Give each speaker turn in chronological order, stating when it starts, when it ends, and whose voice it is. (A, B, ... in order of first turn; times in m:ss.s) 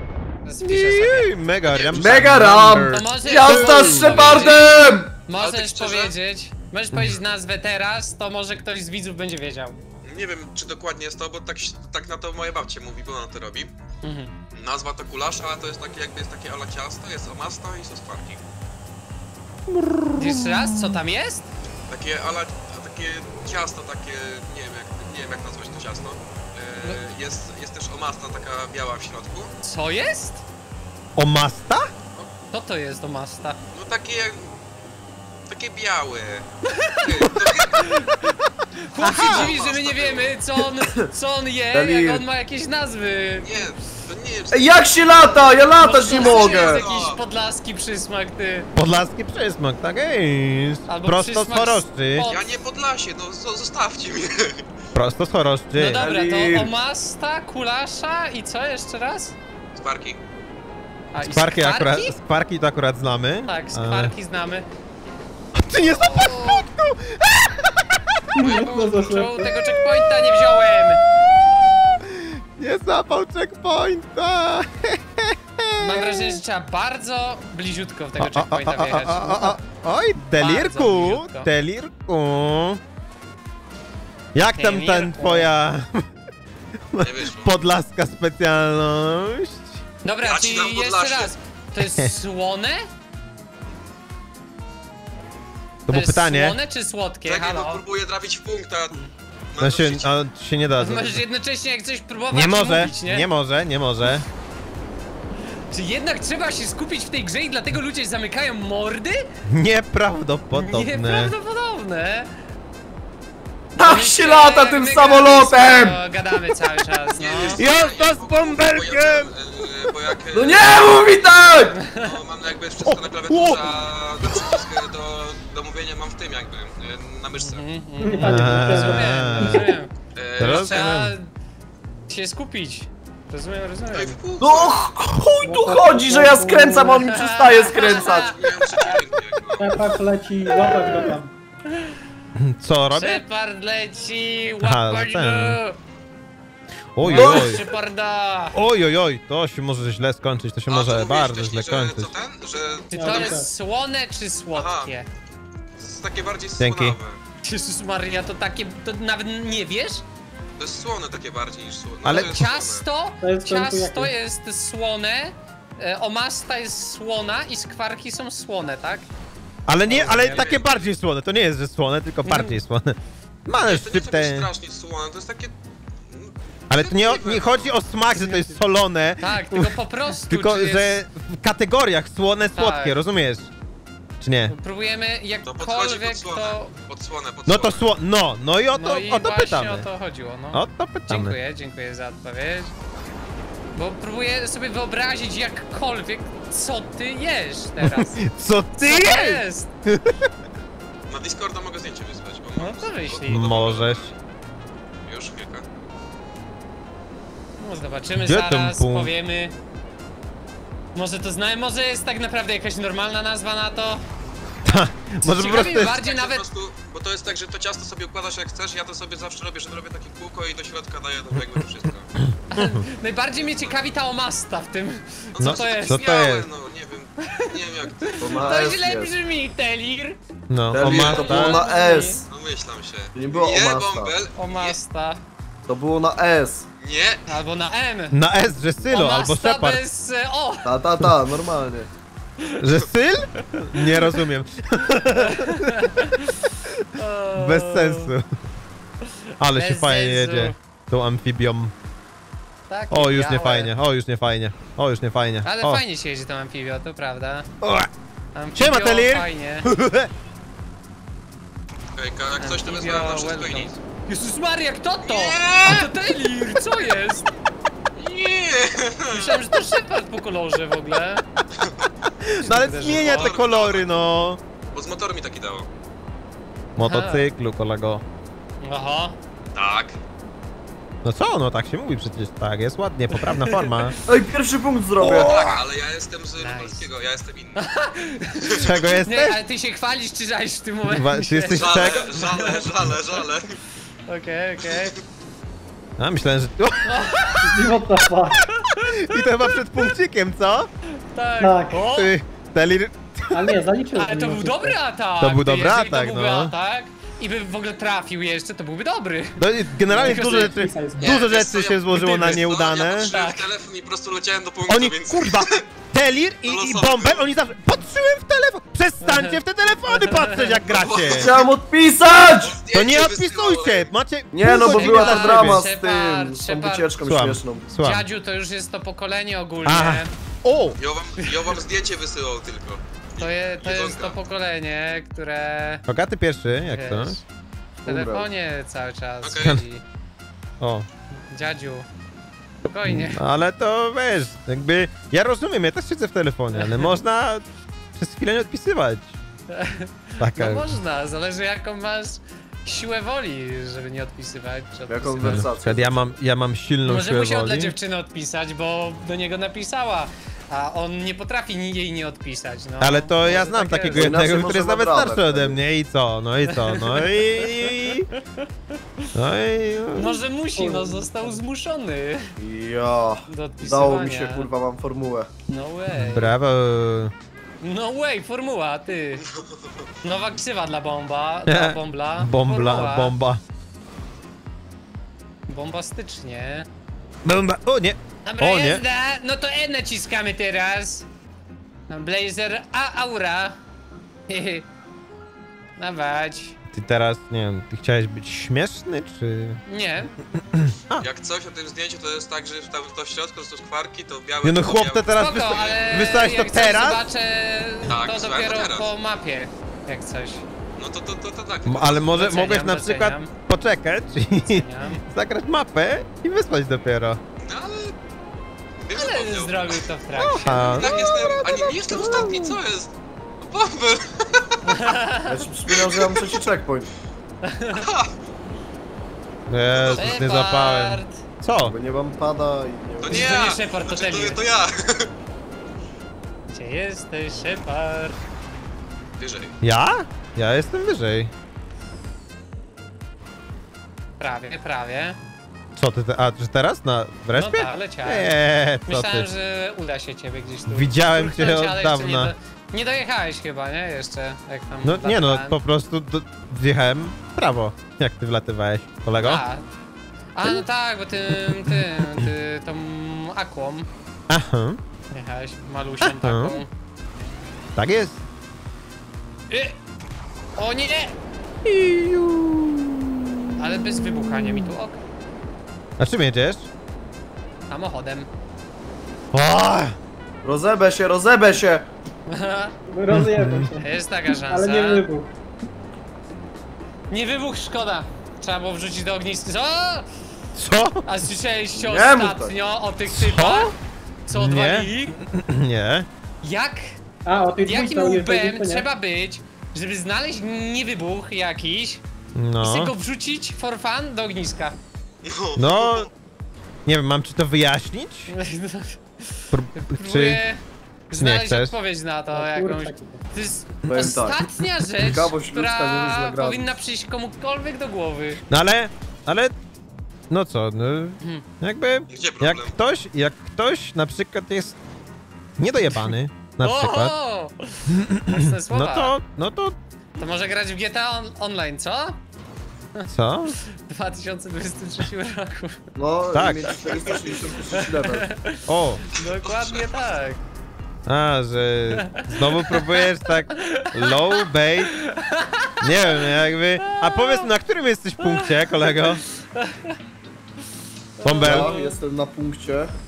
0:00.4-0:01.3 A
0:00.6-0:04.4 B
0:01.6-0:02.2 C
0:01.9-0:05.1 D
0:02.9-0:09.8 A
0:05.4-0:06.1 C
0:06.9-0:07.2 B
0:10.0-0:13.7 C
0:14.0-0:14.3 A
0:14.5-0:18.4 C
0:19.7-0:21.0 B
0:20.2-0:21.5 A
0:21.9-0:29.5 C
0:29.6-0:30.4 A
0:31.2-0:31.9 B
0:32.5-0:33.6 A
0:33.7-0:34.5 C
0:35.5-0:37.8 C
0:37.7-0:38.3 A
0:38.8-0:43.6 A
0:39.0-0:39.5 B
0:39.1-0:40.4 C
0:41.7-0:42.2 D
0:43.4-0:44.8 C
0:44.5-0:46.8 D
0:45.8-0:48.7 A
0:46.1-0:47.2 C
0:48.8-0:52.3 B
0:50.9-0:52.6 A
0:52.2-0:54.6 C
0:54.9-0:56.0 B
0:55.7-0:59.4 A
0:56.0-0:56.7 D
0:59.7-1:00.2 C
1:01.1-1:02.2 A
1:01.2-1:04.1 B
1:03.4-1:04.7 A
1:05.6-1:08.0 B
1:05.9-1:06.6 A
1:08.3-1:09.5 E
1:08.4-1:09.3 C
1:09.0-1:11.0 A
1:09.7-1:10.2 B
1:11.7-1:16.4 B
1:15.8-1:19.6 A
1:18.2-1:22.8 B
1:20.2-1:21.5 A
1:24.3-1:26.1 B
1:24.5-1:25.5 A
1:26.9-1:29.8 B
1:27.0-1:27.6 C
1:30.0-1:32.9 A
1:30.2-1:31.3 C
1:31.8-1:32.1 B
1:35.8-1:36.6 B
1:35.9-1:37.8 A
1:37.2-1:39.0 C
1:39.5-1:40.1 C
1:39.6-1:41.2 B
1:40.8-1:43.3 A
1:42.3-1:44.2 B
1:45.7-1:49.3 A
1:49.4-1:51.3 B
1:50.5-1:52.3 A
1:53.8-1:56.0 D
1:53.8-1:57.6 A
1:57.1-2:01.1 C
1:57.5-1:59.3 B
2:00.3-2:01.8 D
2:01.8-2:02.1 A
2:01.9-2:07.6 C
2:02.8-2:03.8 B
2:07.4-2:11.3 A
2:08.0-2:09.6 E
2:08.2-2:09.7 B
2:10.1-2:11.0 C
2:10.4-2:11.2 B
2:12.1-2:14.2 A
2:13.9-2:14.9 C
2:14.4-2:18.3 D
2:15.4-2:17.1 E
2:17.1-2:18.9 A
2:17.7-2:19.7 C
2:19.6-2:21.3 E
2:22.4-2:23.2 B
2:22.9-2:25.8 A
2:24.6-2:25.6 B
2:27.0-2:27.6 B
2:27.0-2:28.6 A
2:27.1-2:27.5 D
2:28.5-2:32.2 B
2:30.7-2:33.4 C
2:32.9-2:33.5 E
2:32.9-2:35.1 A
2:34.5-2:34.9 C
2:35.8-2:37.2 C
2:36.6-2:37.0 B
2:37.4-2:40.0 A
2:40.6-2:42.8 C
2:42.0-2:42.5 B
2:42.1-2:49.1 A
2:43.2-2:44.1 E
2:49.7-2:54.5 B
2:49.8-2:50.5 A
2:50.2-2:50.9 C
2:52.2-2:52.6 A
2:53.6-2:55.5 C
2:56.1-2:57.7 C
2:56.7-3:03.5 B
2:58.2-2:58.5 A
2:59.2-3:01.0 A
3:02.5-3:03.0 A
3:04.2-3:04.5 B
3:04.5-3:06.7 A
3:05.4-3:07.8 C
3:07.4-3:09.9 B
3:08.7-3:12.7 A
3:10.5-3:11.4 B
3:13.7-3:18.2 A
3:17.8-3:20.1 B
3:18.8-3:19.7 A
3:21.1-3:24.2 C
3:22.6-3:23.5 A
3:23.3-3:24.1 B
3:25.0-3:25.6 C
3:27.6-3:29.5 A
3:28.2-3:29.1 B
3:30.9-3:34.0 A
3:34.6-3:35.9 B
3:35.2-3:36.4 A
3:35.7-3:42.1 C
3:42.3-3:42.8 B
3:42.5-3:46.0 A
3:43.4-3:43.9 C
3:45.3-3:48.8 C
3:45.4-3:46.5 B
3:48.0-3:50.2 A
3:48.2-3:49.1 D
3:50.5-3:51.6 B
3:50.7-3:52.2 D
3:50.8-3:51.3 C
3:51.0-3:52.2 A
3:52.3-3:54.8 C
3:53.1-3:54.2 D
3:54.4-3:55.2 A
3:55.7-3:56.6 D
3:56.8-3:57.3 C
3:57.3-3:58.2 A
3:58.1-3:59.8 B
3:58.9-4:00.7 A
4:00.6-4:01.9 D
4:02.6-4:05.7 B
4:03.9-4:04.1 A
4:05.2-4:06.3 A
4:07.0-4:08.1 A
4:07.3-4:08.2 B
4:09.4-4:11.7 B
4:09.5-4:10.6 A
4:12.7-4:13.7 A
4:12.9-4:15.8 B
4:15.4-4:17.5 A
4:17.6-4:17.9 B
4:18.3-4:19.7 A
4:18.5-4:20.1 B
4:22.0-4:23.8 C
4:22.4-4:27.3 A
4:25.0-4:25.9 C
4:28.0-4:29.5 C
4:29.1-4:31.2 A
4:32.2-4:34.4 B
4:32.4-4:33.4 A
4:33.0-4:33.9 C
4:34.7-4:35.7 C
4:36.8-4:38.0 B
4:36.8-4:37.2 A
4:38.6-4:39.2 A
4:39.5-4:40.0 C
4:41.0-4:43.9 B
4:43.2-4:43.9 A
4:44.0-4:45.4 D
4:45.0-4:45.5 B
4:45.2-4:47.6 C
4:46.4-4:46.9 A
4:47.6-4:52.9 A
4:48.5-4:49.4 B
4:50.9-4:52.2 B
4:51.5-4:53.5 C
4:54.1-4:55.0 A
4:56.0-4:57.0 B
4:56.8-4:57.6 A
4:57.4-4:58.4 E
4:58.4-4:58.9 A
4:58.8-5:00.7 B
5:01.0-5:02.1 A
5:01.4-5:01.8 E
5:01.8-5:03.5 B
5:03.3-5:04.8 E
5:04.0-5:11.2 A
5:05.2-5:06.5 B
5:09.4-5:13.1 B
5:09.9-5:11.1 E
5:11.0-5:15.6 C
5:12.9-5:13.5 A
5:14.7-5:21.3 B
5:16.4-5:17.3 C
5:19.0-5:20.6 A
5:20.7-5:21.4 C
5:21.1-5:22.6 D
5:22.4-5:23.9 C
5:22.7-5:25.6 B
5:24.3-5:27.6 D
5:24.4-5:26.9 A
5:27.0-5:28.0 B
5:27.8-5:30.1 A
5:29.6-5:30.8 B
5:30.8-5:34.2 C
5:33.2-5:35.8 A
5:35.9-5:37.2 B
5:36.7-5:37.2 A
5:37.8-5:38.3 D
5:37.8-5:39.8 A
5:39.2-5:39.6 C
5:40.6-5:40.8 B
5:41.3-5:41.9 A
5:42.6-5:43.2 A
5:42.8-5:49.1 B
5:46.5-5:46.9 A
5:49.5-5:55.5 A
5:50.2-5:50.7 B
5:54.9-5:56.0 D
5:55.2-5:57.7 B
5:56.8-6:04.3 A
6:02.8-6:08.1 B
6:03.9-6:05.6 D
6:06.5-6:08.2 A
6:09.1-6:10.2 B
6:09.9-6:12.3 A
6:10.6-6:11.4 E
6:12.4-6:15.3 D
6:13.3-6:14.5 A
6:15.5-6:16.3 A
6:15.9-6:17.1 B
6:17.6-6:19.3 A
6:19.3-6:19.6 C
6:20.0-6:23.1 A
6:21.4-6:23.4 B
6:25.5-6:26.7 A
6:27.2-6:28.8 B
6:28.2-6:31.0 A
6:31.9-6:33.6 A
6:34.3-6:34.6 A
6:35.8-6:36.6 A
6:36.7-6:39.6 B
6:39.6-6:40.1 A
6:40.5-6:41.0 B
6:41.0-6:45.8 C
6:44.4-6:47.0 B
6:45.2-6:50.4 A
6:47.9-6:48.9 C
6:50.8-6:52.4 C
6:51.6-6:57.2 B
6:52.1-6:53.3 A
6:54.4-6:55.0 A
6:57.4-6:57.9 C
6:58.8-6:59.8 C
6:58.9-7:01.4 A
7:00.2-7:02.6 B
7:00.6-7:02.9 C
7:01.9-7:02.4 A
7:03.4-7:04.6 C
7:04.6-7:05.4 A
7:05.2-7:06.9 D
7:05.7-7:06.4 C
7:07.4-7:07.8 A
7:07.8-7:08.1 C
7:09.5-7:11.7 B
7:09.7-7:10.3 C
7:10.0-7:11.2 A
7:11.6-7:13.3 D
7:13.0-7:15.1 C
7:13.1-7:14.4 A
7:16.5-7:18.2 A
7:19.2-7:19.5 C
7:19.6-7:21.3 B
7:24.2-7:25.2 A
7:25.8-7:29.3 B
7:27.3-7:35.6 A
7:30.7-7:32.3 B
7:34.8-7:39.4 B
7:39.2-7:39.6 A
7:40.3-7:43.9 A
7:41.3-7:42.3 B
7:44.3-7:44.8 B
7:45.1-7:46.7 A
7:46.0-7:46.6 B
7:47.8-7:48.2 B
7:49.5-7:49.8 A
7:50.6-7:51.1 A
7:51.6-7:54.7 B
7:53.6-7:55.0 A
7:56.0-7:56.7 B
7:57.7-7:58.3 A
7:59.3-7:59.9 B
8:00.4-8:01.8 D
8:02.3-8:02.7 A
8:02.9-8:03.9 E
8:03.1-8:03.7 B
8:03.8-8:05.0 A
8:04.5-8:05.3 E
8:07.1-8:10.1 A
8:10.6-8:11.2 B
8:11.0-8:13.7 A
8:11.7-8:12.5 D
8:13.1-8:13.7 B
8:14.2-8:15.2 A
8:14.3-8:16.1 B
8:16.4-8:17.0 A
8:17.2-8:18.9 E
8:17.6-8:22.0 A
8:22.3-8:22.9 B
8:22.6-8:24.8 A
8:25.2-8:26.1 C
8:25.6-8:26.1 B
8:26.8-8:28.3 B
8:28.3-8:38.4 A
8:29.5-8:30.4 B
8:31.1-8:31.8 B
8:32.3-8:33.2 E
8:33.8-8:34.4 D
8:35.0-8:36.7 D
8:38.5-8:39.5 B
8:40.3-8:44.8 B
8:42.1-8:42.7 C
8:45.6-8:47.1 B
8:46.6-8:49.2 A
8:48.1-8:49.8 B
8:50.2-8:52.2 A
8:53.1-8:53.6 B
8:53.6-8:55.8 A
8:56.0-8:58.3 D
8:56.3-8:56.8 B
8:57.7-9:00.4 A
8:58.6-8:59.0 B
8:59.4-9:00.1 C
9:01.0-9:04.9 B
9:02.0-9:03.1 A
9:03.7-9:04.4 A
9:05.0-9:06.3 A
9:05.8-9:09.2 B
9:06.8-9:07.5 A
9:08.2-9:10.0 A
9:11.2-9:12.0 A
9:11.2-9:11.7 B
9:11.4-9:12.9 D